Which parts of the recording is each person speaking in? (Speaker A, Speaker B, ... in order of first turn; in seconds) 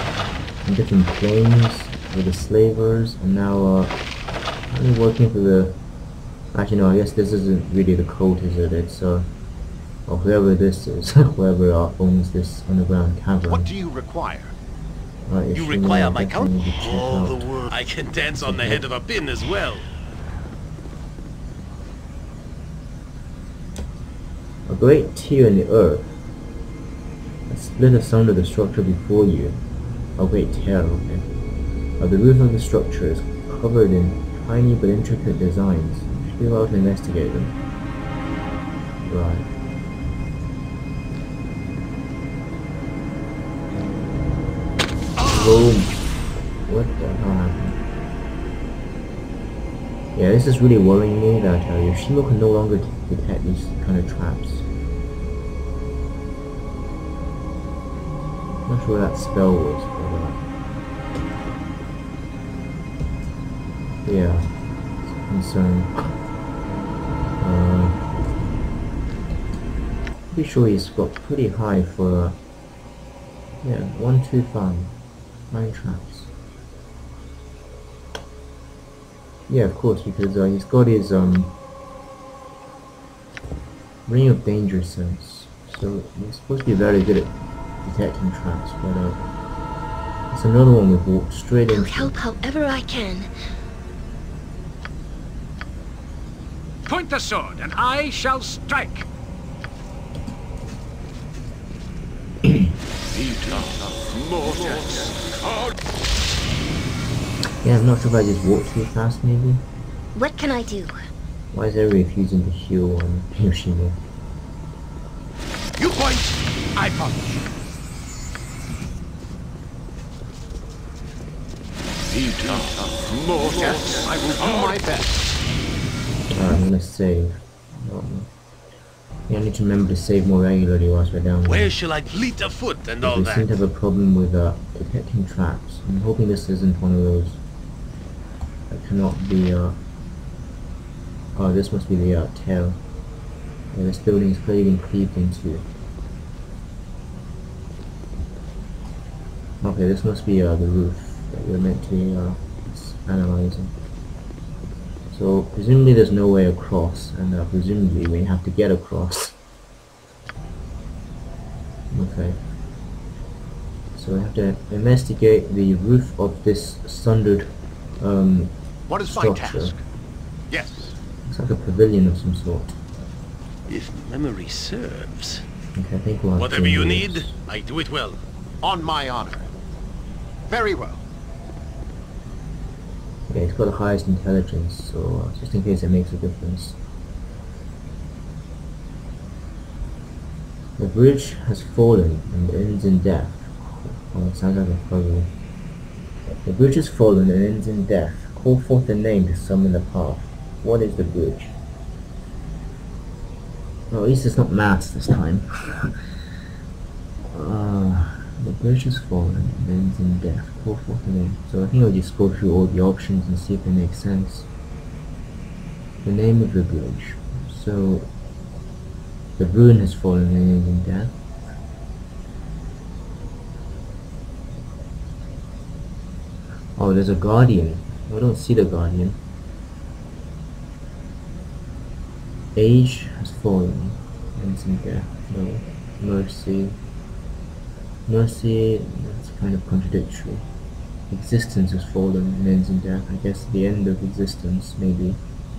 Speaker A: 0.6-3.9, 4.7-5.8, 6.5-9.3, 10.1-13.7, 15.3-17.5, 18.4-18.9, 24.7-26.1, 27.5-29.6, 30.2-31.3, 32.0-37.6, 39.0-39.5, 45.2-46.0, 46.7-47.8, 50.1-54.7, 58.6-60.4, 64.0-66.1, 67.4-68.0, 70.3-72.4, 73.6-75.0, 75.5-76.3, 79.5-81.5, 84.1-89.2, 90.3-92.2, 107.6-109.6, 111.5-114.0, 126.3-128.3, 129.3-131.8, 133.0-137.4, 138.7-139.8, 141.3-142.8, 143.7-145.7, 149.6-153.7, 155.1-159.4, 161.9-162.4, 163.9-169.8, 171.2-172.8, 175.8-177.4, 183.3-186.8, 190.8-195.3, 196.4-201.6, 203.9-205.9, 207.3-214.5, 216.0-218.1, 219.4-221.1, 226.8-229.2, 232.6-236.8, 238.1-240.4, 241.1-245.2
Speaker B: 13.5-14.5, 115.8-117.4, 123.5-125.2, 168.9-169.8, 170.5-171.0, 178.6-179.5, 180.5-181.0
Speaker C: 15.5-19.9, 103.2-103.7, 104.3-105.0, 122.1-123.4, 131.4-133.6, 173.7-175.4, 176.4-178.2
Speaker D: 91.7-93.3, 110.2-111.0
Speaker E: 96.9-99.1